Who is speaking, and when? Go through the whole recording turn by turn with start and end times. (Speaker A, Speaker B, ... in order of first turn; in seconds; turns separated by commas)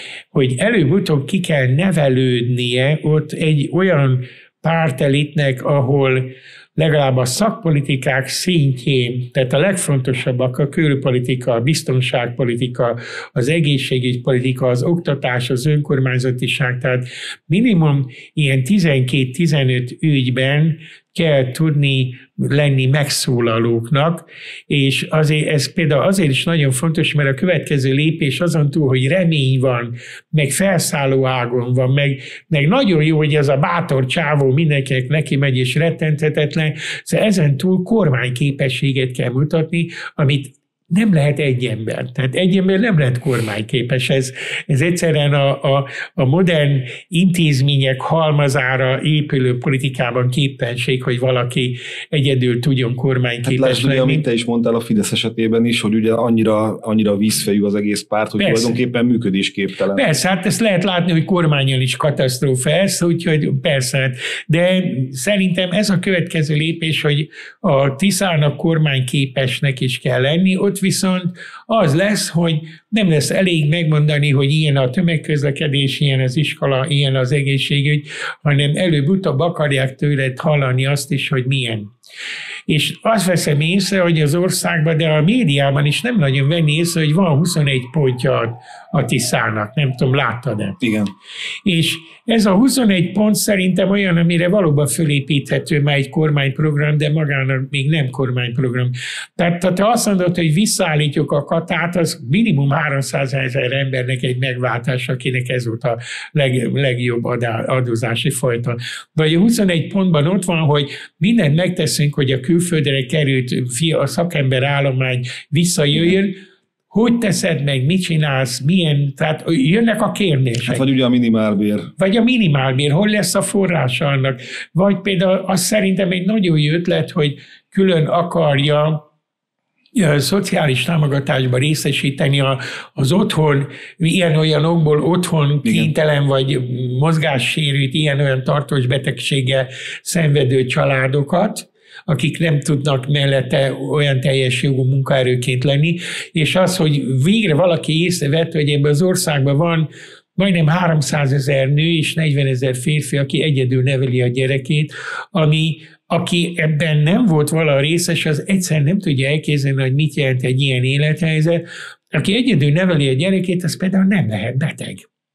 Speaker A: 0.3-54.2, Speaker B: 53.4-60.0, Speaker A: 58.4-58.8, Speaker A: 59.9-81.9, Speaker A: 82.7-90.8, Speaker B: 90.8-91.1, Speaker A: 91.6-116.4, Speaker A: 116.9-120.8, Speaker B: 120.7-121.9, Speaker A: 122.0-129.0, Speaker A: 129.9-165.1, Speaker B: 135.6-135.9